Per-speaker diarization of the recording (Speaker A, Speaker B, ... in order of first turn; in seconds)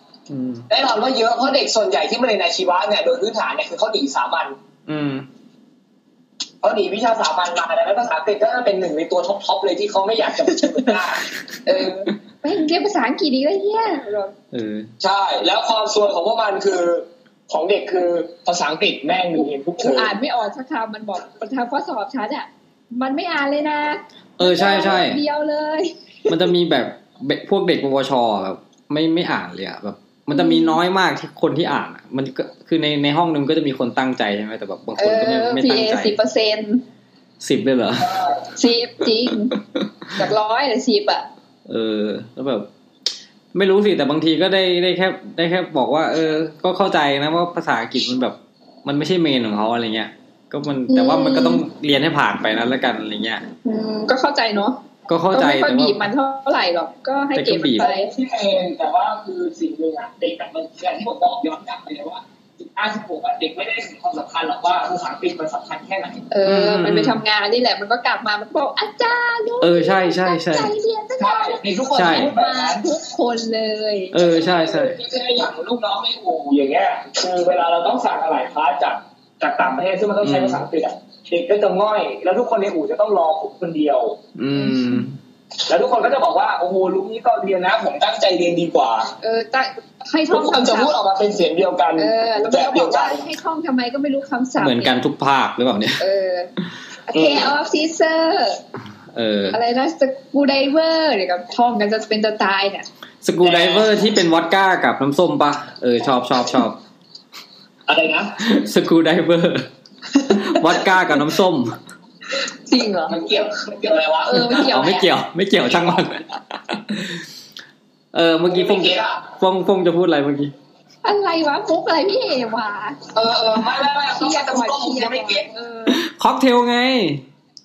Speaker A: 0.3-0.7, 4.9-5.2, 14.5-14.9, 24.4-25.2, 26.3-36.1, 37.4-38.2, 41.7-42.7, 43.5-53.4, 55.1-56.0, 57.3-57.9, 66.4-67.2, 69.6-70.7, 72.0-72.3, 74.1-75.0, 80.2-80.6, 84.3-85.2, 94.6-96.0, 99.1-99.6, 103.2-106.8, 108.4-109.7, 110.2-111.8, 114.7-117.2, 118.1-120.5, 125.9-127.2
Speaker B: 0.7-4.5, 6.6-11.2, 15.0-20.1, 57.8-66.2, 71.2-72.8, 74.2-84.2, 85.7-89.1, 90.3-93.3, 97.1-97.5, 103.4-103.9, 107.9-108.4, 113.1-115.0, 115.7-116.0, 118.5-119.2, 123.1-125.5
Speaker C: 11.7-14.3, 19.8-25.9, 30.3-30.8, 35.0-36.8, 38.5-39.6, 40.1-41.3, 50.9-51.6, 53.6-54.8, 55.3-58.1, 66.3-74.3, 84.6-85.0, 89.2-90.9, 92.0-94.9, 96.0-96.5, 97.1-98.6, 99.5-102.8, 112.7-113.2, 114.2-115.1, 121.0-123.1, 124.0-126.0